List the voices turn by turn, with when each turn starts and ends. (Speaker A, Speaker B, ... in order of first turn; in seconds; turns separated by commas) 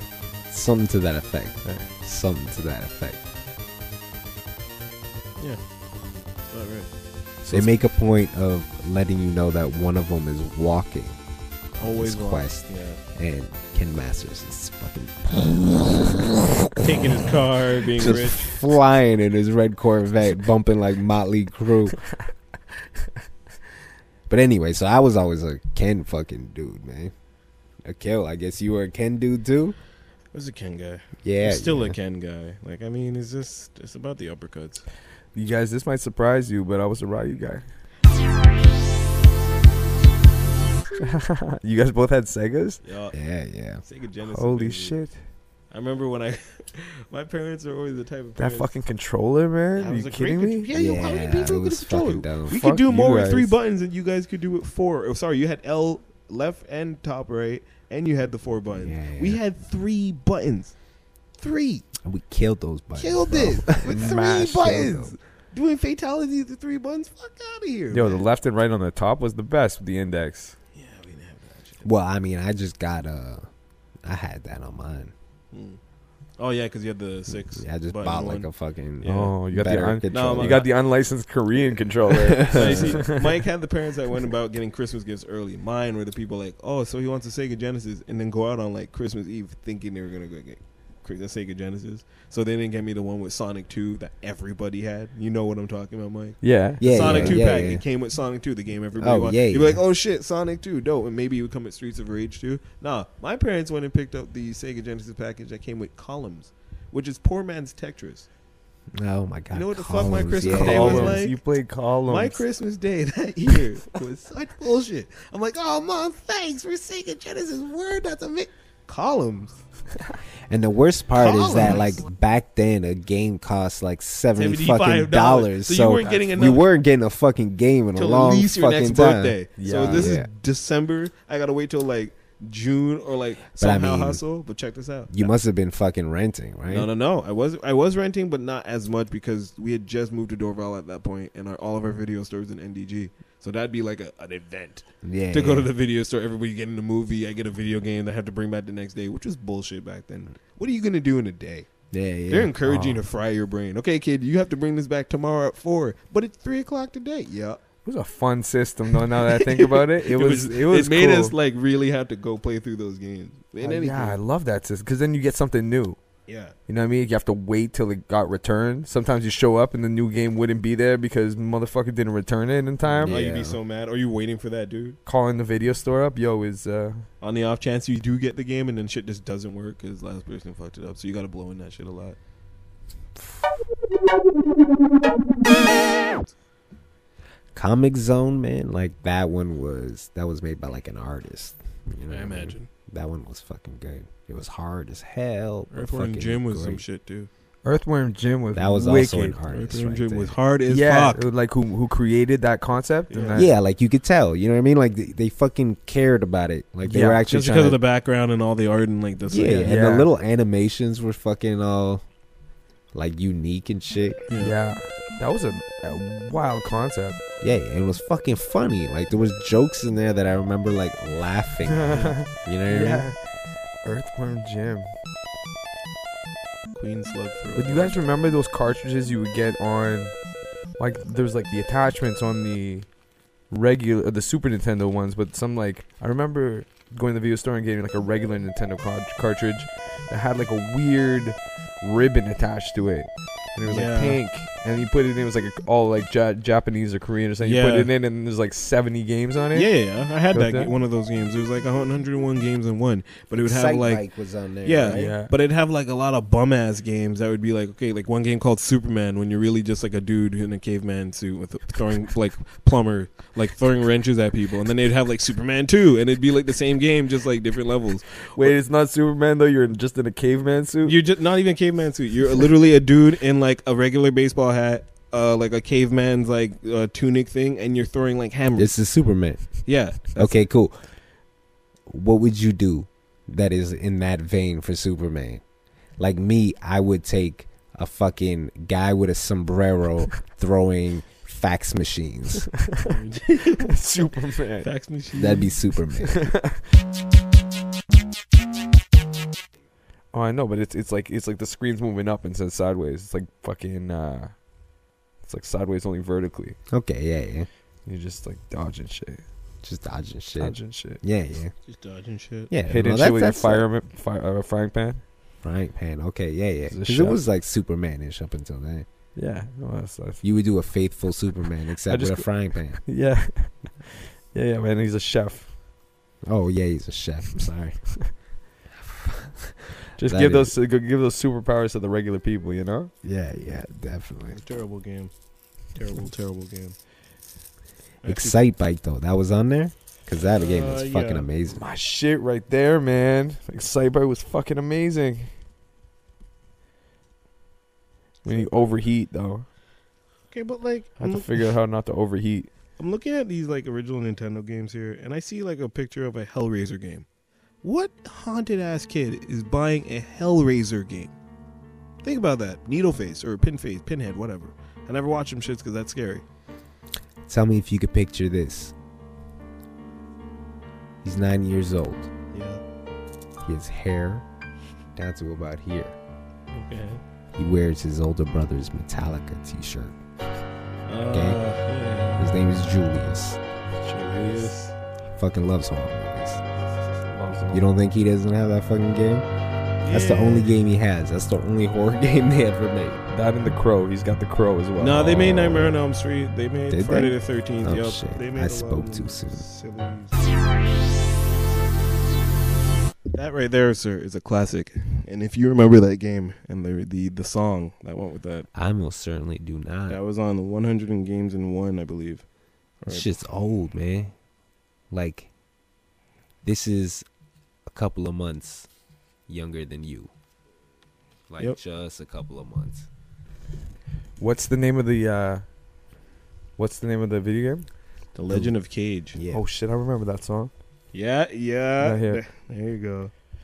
Speaker A: 0.5-3.2, Speaker B: 1.6-1.9, Speaker C: 6.4-6.9, Speaker B: 7.4-7.8, Speaker A: 7.5-11.2, Speaker C: 11.8-13.0, Speaker A: 11.8-16.5, Speaker C: 16.8-18.6, Speaker A: 18.0-22.0, Speaker A: 24.3-27.1, Speaker A: 27.8-29.8, Speaker C: 30.3-34.9, Speaker A: 31.2-31.9, Speaker B: 35.3-37.6, Speaker B: 41.0-42.8, Speaker C: 42.8-43.2, Speaker A: 43.1-43.8, Speaker C: 43.8-45.0, Speaker B: 44.2-45.2, Speaker C: 45.7-48.8, Speaker B: 48.4-50.7, Speaker C: 49.8-60.8, Speaker A: 50.7-52.5, Speaker B: 52.5-53.5, Speaker A: 58.7-59.4, Speaker C: 61.4-61.9, Speaker A: 62.0-65.2, Speaker C: 63.0-68.3, Speaker B: 63.9-64.6, Speaker B: 67.9-70.5, Speaker C: 70.7-71.9, Speaker A: 71.8-73.5, Speaker A: 74.0-75.1, Speaker C: 75.5-75.8, Speaker C: 76.4-78.5, Speaker A: 77.6-80.7, Speaker C: 79.0-79.3, Speaker B: 79.0-83.2, Speaker C: 80.1-80.7, Speaker A: 82.1-83.0, Speaker C: 82.4-108.3, Speaker B: 96.4-97.4, Speaker A: 96.8-97.8, Speaker A: 99.0-99.8, Speaker A: 109.0-111.2, Speaker C: 109.5-111.4, Speaker B: 110.5-112.4, Speaker C: 112.1-119.6, Speaker A: 120.5-130.3, Speaker C: 121.2-122.0, Speaker C: 124.4-126.7, Speaker B: 126.0-126.3, Speaker C: 128.0-135.3, Speaker B: 129.6-130.2, Speaker A: 133.6-134.2, Speaker A: 135.1-136.9, Speaker C: 136.7-157.6, Speaker A: 145.0-145.7, Speaker A: 151.9-152.6, Speaker B: 152.7-153.0, Speaker B: 157.8-161.3, Speaker C: 159.1-164.2, Speaker B: 163.6-166.0, Speaker C: 166.3-166.6, Speaker B: 166.7-173.2, Speaker A: 173.0-173.6, Speaker C: 173.0-175.0, Speaker B: 175.1-177.1, Speaker C: 177.2-182.2, Speaker C: 185.9-186.3, Speaker A: 187.6-196.8, Speaker C: 192.1-192.7, Speaker C: 195.7-197.3, Speaker B: 197.7-199.4, Speaker A: 198.5-200.4, Speaker C: 199.5-201.3, Speaker B: 200.7-203.5, Speaker C: 203.1-203.4, Speaker A: 203.3-207.8, Speaker B: 206.8-207.2, Speaker C: 207.3-209.8, Speaker A: 209.3-212.0, Speaker B: 209.5-210.1, Speaker A: 212.9-214.2, Speaker C: 214.3-214.5, Speaker B: 214.3-217.2, Speaker A: 217.4-223.1, Speaker B: 221.7-223.2, Speaker B: 223.8-224.9, Speaker C: 226.8-228.0, Speaker B: 227.6-230.2, Speaker B: 230.8-232.9, Speaker B: 233.5-249.7, Speaker C: 243.7-244.2, Speaker C: 247.4-247.9, Speaker C: 249.5-254.1, Speaker B: 250.3-250.7, Speaker A: 253.3-255.1, Speaker C: 254.6-268.6, Speaker B: 254.9-255.3, Speaker B: 268.4-271.0, Speaker C: 270.8-278.8, Speaker A: 278.6-280.8, Speaker C: 279.6-280.5, Speaker A: 281.9-285.4, Speaker A: 286.0-292.5, Speaker C: 292.9-293.7, Speaker B: 293.6-294.7, Speaker C: 294.6-295.6, Speaker A: 295.1-296.3, Speaker B: 296.1-296.6, Speaker B: 300.1-304.4, Speaker B: 305.2-306.6, Speaker A: 306.7-307.5, Speaker B: 307.9-309.2, Speaker A: 309.6-311.5, Speaker B: 310.4-311.0, Speaker C: 311.7-312.5, Speaker A: 312.5-313.7, Speaker B: 312.7-315.0, Speaker A: 315.4-318.9, Speaker B: 316.7-317.2, Speaker B: 319.2-320.2, Speaker A: 320.2-322.8, Speaker B: 321.9-325.5, Speaker A: 326.2-328.0, Speaker A: 328.8-330.5, Speaker B: 330.0-332.9, Speaker A: 333.0-334.4, Speaker C: 334.3-335.1, Speaker C: 335.7-336.8, Speaker C: 338.0-338.4, Speaker A: 338.0-341.6, Speaker C: 340.3-341.3, Speaker B: 341.5-345.3, Speaker B: 348.2-349.5, Speaker C: 348.3-348.9, Speaker C: 350.3-351.5, Speaker B: 351.0-352.5, Speaker C: 352.8-357.1, Speaker C: 357.6-361.1, Speaker C: 362.0-366.2, Speaker A: 367.3-368.7, Speaker A: 371.0-372.1, Speaker C: 372.3-372.6, Speaker A: 373.4-374.2, Speaker A: 375.0-376.0, Speaker C: 376.5-377.0, Speaker A: 377.4-380.0, Speaker C: 380.9-382.3, Speaker A: 381.1-381.4, Speaker A: 382.2-383.4, Speaker B: 383.8-384.5, Speaker C: 383.9-384.7, Speaker A: 385.2-386.4, Speaker B: 387.1-387.6, Speaker A: 387.5-389.3, Speaker C: 389.8-390.5, Speaker A: 389.9-393.1, Speaker B: 393.1-395.8, Speaker C: 394.8-400.2, Speaker A: 396.7-399.4, Speaker C: 403.1-408.5, Speaker A: 408.5-410.0, Speaker C: 409.9-412.3, Speaker C: 412.8-413.1, Speaker A: 412.9-414.1, Speaker A: 414.9-415.3, Speaker A: 416.4-417.1, Speaker A: 417.7-418.7, Speaker A: 419.3-420.1, Speaker A: 421.3-422.9, Speaker B: 424.2-425.5, Speaker B: 426.6-427.7, Speaker C: 428.1-429.2, Speaker A: 429.1-429.4, Speaker B: 429.3-430.5, Speaker C: 430.9-433.1, Speaker B: 431.8-432.2